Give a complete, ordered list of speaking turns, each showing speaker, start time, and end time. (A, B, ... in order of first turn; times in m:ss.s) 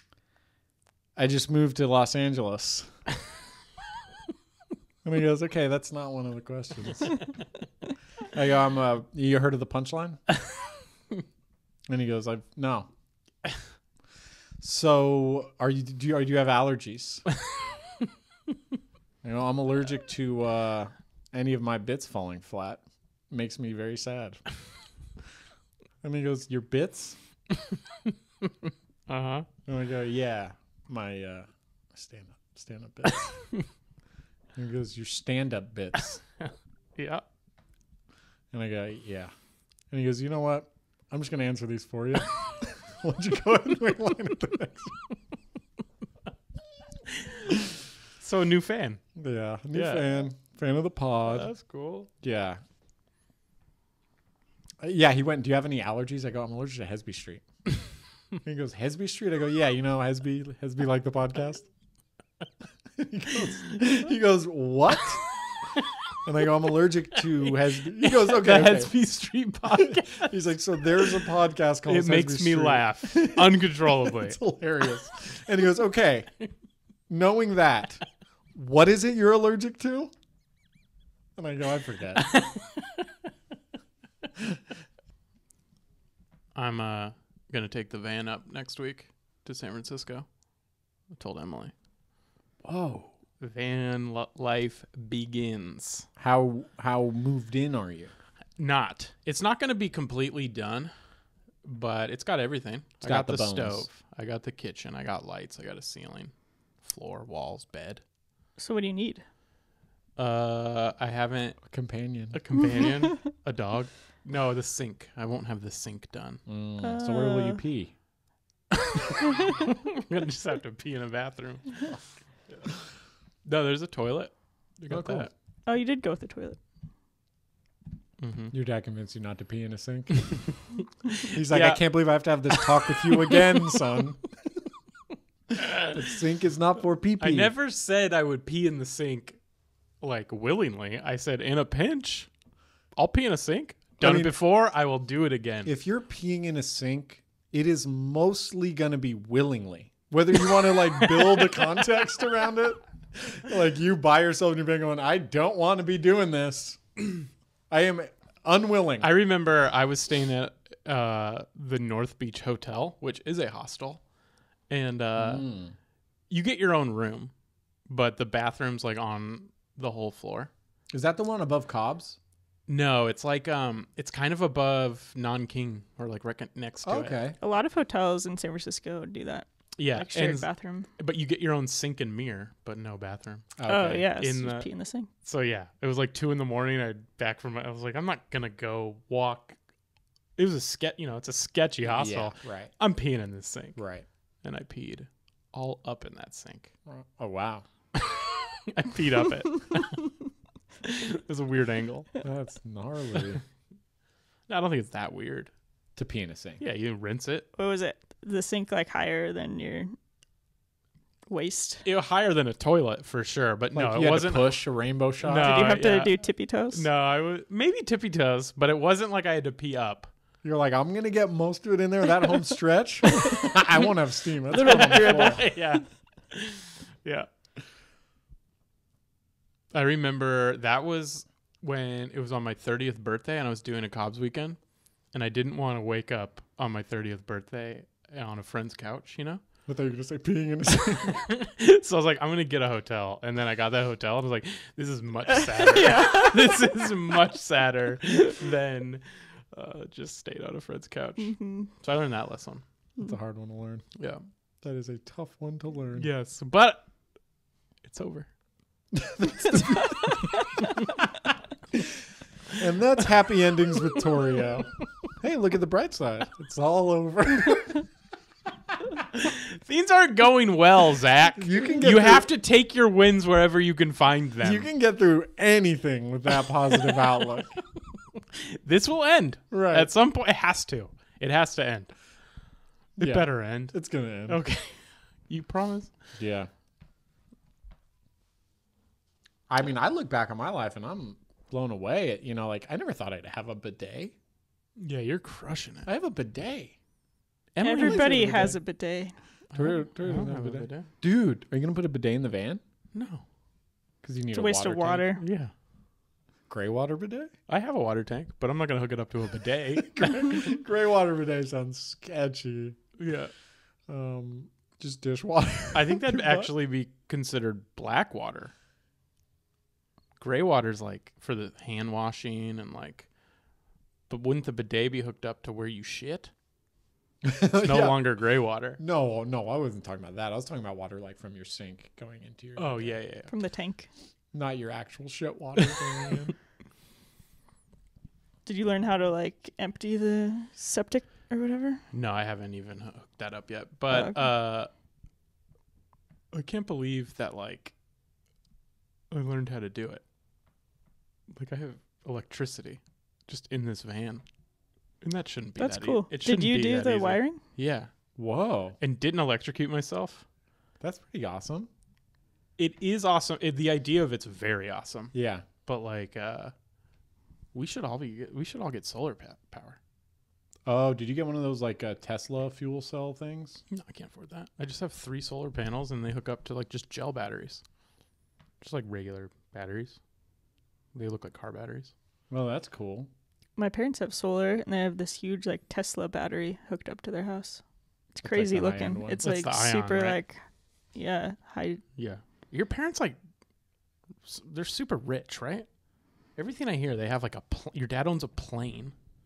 0:01.2-0:03.0 A
0:05.0-0:07.3 A
0:08.3-0:10.2 A
0:11.9-0:12.9 A
0:14.6-0:17.2 A
0:19.2-0:24.5 A
0:26.0-0:27.2 A
0:29.1-0:29.5 B
0:29.7-0:33.6 A
0:34.6-0:36.2 A
0:36.4-0:37.2 B
0:38.5-0:39.3 A
0:39.9-0:45.1 A
0:48.2-0:49.0 B
0:49.2-0:51.5 A
0:49.7-0:50.2 B
0:51.3-0:52.1 B
0:52.2-0:52.6 A
0:54.8-0:57.4 A
0:58.4-1:01.7 A
1:03.0-1:05.3 A
1:05.3-1:05.8 B
1:06.2-1:08.9 A
1:08.0-1:10.4 B
1:09.7-1:16.3 A
1:11.0-1:11.2 B
1:11.9-1:14.4 B
1:17.1-1:18.0 A
1:18.6-1:20.1 A
1:21.4-1:22.4 A
1:22.2-1:23.1 B
1:26.6-1:30.4 B
1:31.1-1:31.7 B
1:32.6-1:33.1 A
1:33.4-1:36.1 B
1:36.2-1:38.1 A
1:38.6-1:40.9 B
1:41.6-1:48.0 B
1:43.0-1:43.9 A
1:48.6-1:49.2 C
1:50.2-1:51.8 B
1:51.7-1:52.4 A
1:52.3-1:56.4 B
1:56.5-1:57.9 A
1:56.8-1:57.6 C
2:00.0-2:02.7 B
2:03.4-2:05.3 B
2:04.9-2:05.3 A
2:05.7-2:06.6 C
2:08.2-2:08.5 B
2:08.5-2:10.5 A
2:11.1-2:13.8 B
2:11.3-2:14.2 A
2:15.5-2:17.5 A
2:15.6-2:16.0 B
2:17.2-2:19.4 B
2:20.0-2:22.3 B
2:23.0-2:25.7 B
2:24.0-2:24.4 A
2:25.7-2:39.1 A
2:31.2-2:31.5 B
2:39.0-2:44.0 B
2:44.7-2:45.5 B
2:45.2-2:45.7 A
2:46.3-2:47.3 B
2:47.9-2:50.5 B
2:50.9-2:52.2 A
2:52.7-2:57.2 B
2:56.8-2:57.4 A
2:57.4-3:00.9 C
2:59.8-3:09.6 B
3:03.6-3:04.0 A
3:03.7-3:05.1 C
3:10.4-3:13.8 B
3:11.8-3:12.7 A
3:13.8-3:14.0 A
3:14.4-3:16.7 B
3:16.9-3:17.6 A
3:18.0-3:20.2 B
3:20.8-3:22.1 B
3:22.2-3:23.4 A
3:24.5-3:25.5 B
3:26.0-3:26.6 A
3:26.6-3:27.5 B
3:27.6-3:29.9 C
3:31.3-3:31.8 C
3:31.8-3:34.7 B
3:33.7-3:35.6 A
3:35.2-3:36.2 B
3:35.3-3:36.8 C
3:36.7-3:40.1 B
3:40.4-3:45.5 A
3:44.5-3:47.3 B
3:44.6-3:45.4 C
3:49.7-3:59.4 B
3:59.7-4:01.3 A
4:01.1-4:12.6 B
4:05.6-4:06.8 C
4:11.2-4:11.7 C
4:13.0-4:13.9 A
4:14.0-4:14.2 B
4:14.6-4:16.1 A
4:16.0-4:16.9 B
4:17.8-4:18.3 B
4:18.9-4:20.2 A
4:19.6-4:20.4 C
4:22.6-4:27.9 A
4:29.1-4:34.7 B
4:31.4-4:32.3 A
4:34.4-4:37.6 A
4:38.6-4:41.9 B
4:39.5-4:39.9 A
4:43.0-4:44.4 A
4:43.0-4:45.9 B
4:46.2-4:46.5 A
4:49.5-4:54.2 A
4:54.8-4:55.9 B
4:55.9-4:56.8 A
4:57.6-4:58.6 B
4:57.6-4:59.2 C
4:57.8-4:58.6 A
4:59.5-5:00.9 B
4:59.5-5:02.6 A
5:02.9-5:03.2 B
5:04.0-5:05.0 A
5:04.3-5:05.2 C
5:05.2-5:05.5 B
5:06.5-5:07.3 A
5:07.5-5:10.5 B
5:09.8-5:12.8 A
5:13.0-5:13.3 B
5:13.9-5:16.5 A
5:15.7-5:18.5 B
5:20.2-5:23.1 B
5:24.1-5:26.3 B
5:27.2-5:28.1 A
5:27.6-5:28.8 B
5:28.8-5:33.0 A
5:32.6-5:33.3 B
5:33.3-5:33.9 C
5:34.3-5:36.3 A
5:38.5-5:41.8 C
5:41.9-5:44.7 B
5:43.9-5:44.2 C
5:46.3-5:47.7 B
5:49.1-5:50.0 B
5:51.3-5:54.2 B
5:55.0-5:57.9 B
5:55.6-5:57.4 C
5:58.2-5:58.8 A
5:58.8-6:00.2 B
6:00.8-6:01.7 A
6:02.6-6:05.1 B
6:05.1-6:05.4 A
6:05.6-6:06.5 B
6:07.5-6:09.8 B
6:10.7-6:13.6 A
6:13.7-6:17.6 B
6:18.6-6:20.0 B
6:20.9-6:21.9 B
6:22.3-6:23.1 A
6:23.6-6:27.6 C
6:28.2-6:31.8 C
6:28.2-6:29.2 A
6:29.2-6:30.2 B
6:32.0-6:33.2 B
6:34.2-6:35.7 B
6:36.4-6:38.9 B